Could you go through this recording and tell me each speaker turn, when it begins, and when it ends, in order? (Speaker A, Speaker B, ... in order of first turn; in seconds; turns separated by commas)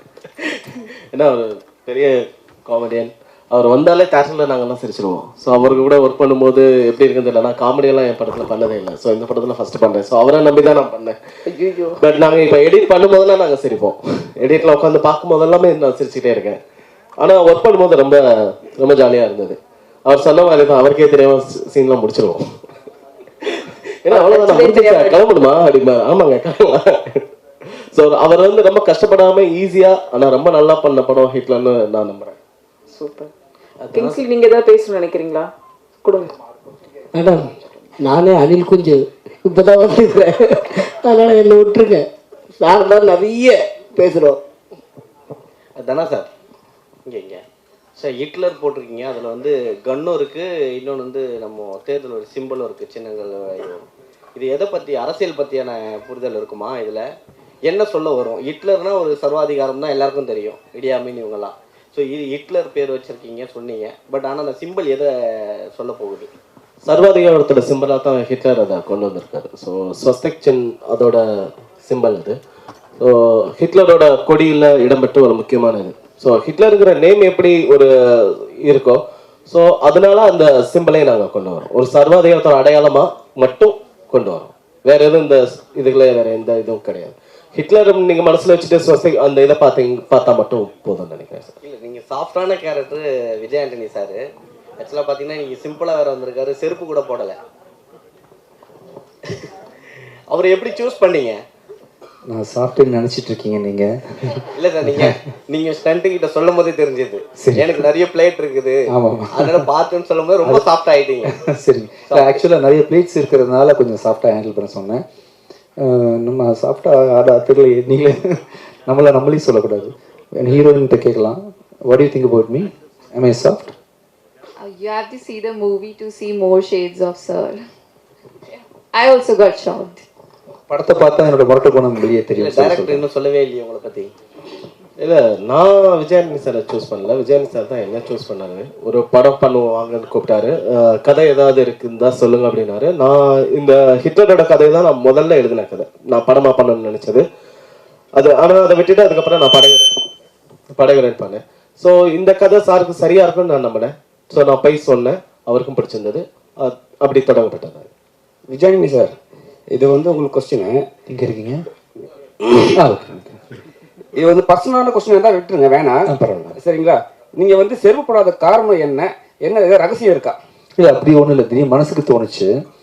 Speaker A: 0.4-11.2, Speaker B: 11.5-12.0, Speaker A: 12.0-16.6, Speaker A: 17.2-22.4, Speaker A: 23.4-27.2, Speaker B: 24.1-25.5, Speaker A: 27.9-32.4, Speaker B: 32.9-33.3, Speaker A: 33.8-34.2, Speaker B: 33.9-35.5, Speaker B: 36.0-36.3, Speaker C: 37.1-44.4, Speaker D: 45.8-46.3, Speaker D: 47.1-47.4, Speaker D: 48.0-53.9, Speaker D: 54.4-57.0, Speaker D: 57.7-66.3, Speaker A: 66.8-72.4, Speaker A: 73.0-91.5, Speaker D: 91.6-94.2, Speaker D: 94.8-97.4, Speaker D: 100.3-101.4, Speaker E: 102.3-105.2, Speaker D: 104.5-111.3, Speaker E: 107.4-107.9, Speaker E: 108.9-109.7, Speaker E: 111.2-115.0, Speaker D: 112.1-112.4, Speaker E: 115.8-123.7, Speaker F: 124.6-127.6, Speaker F: 128.9-130.1, Speaker E: 130.7-133.1, Speaker D: 132.4-134.1, Speaker A: 135.0-147.2, Speaker A: 148.2-149.8, Speaker A: 150.7-157.9, Speaker G: 158.5-159.1, Speaker G: 159.7-160.8, Speaker E: 161.1-161.6, Speaker E: 162.7-163.4, Speaker G: 164.2-166.0, Speaker E: 166.1-166.6, Speaker G: 166.6-170.4, Speaker E: 170.8-172.5